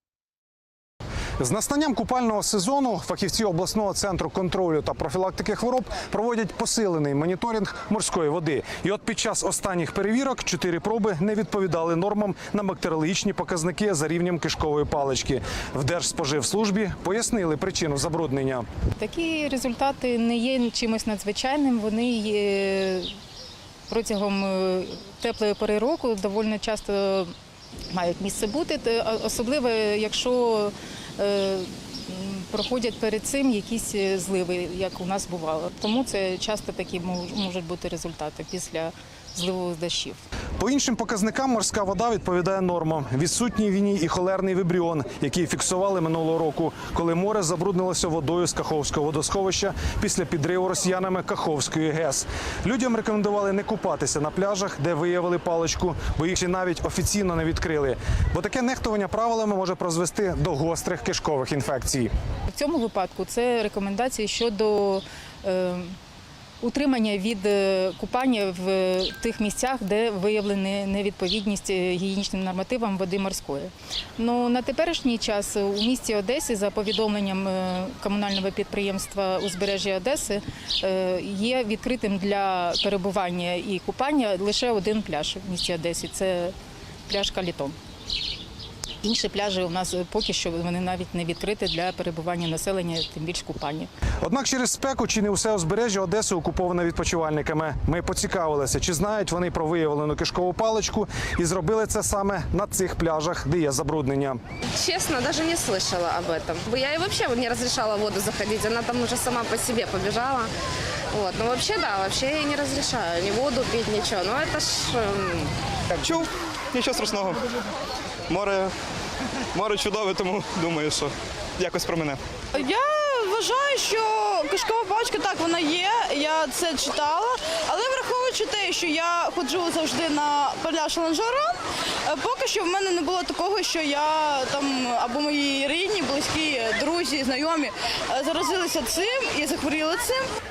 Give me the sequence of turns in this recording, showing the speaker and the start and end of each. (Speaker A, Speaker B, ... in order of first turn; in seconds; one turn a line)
Speaker A: 1.4-18.7
Speaker B: 19.0-23.1
Speaker B: 23.9-27.3
Speaker B: 27.9-40.2
Speaker A: 40.6-62.1
Speaker B: 62.5-66.0
Speaker B: 66.6-86.5
Speaker B: 87.1-87.8
Speaker B: 89.0-93.9
Speaker A: 94.2-104.4
Speaker C: 104.7-110.5
Speaker C: 111.1-115.5
Speaker D: 116.0-117.4
Speaker D: 118.3-118.7
Speaker D: 119.5-122.2
Speaker E: 122.5-140.3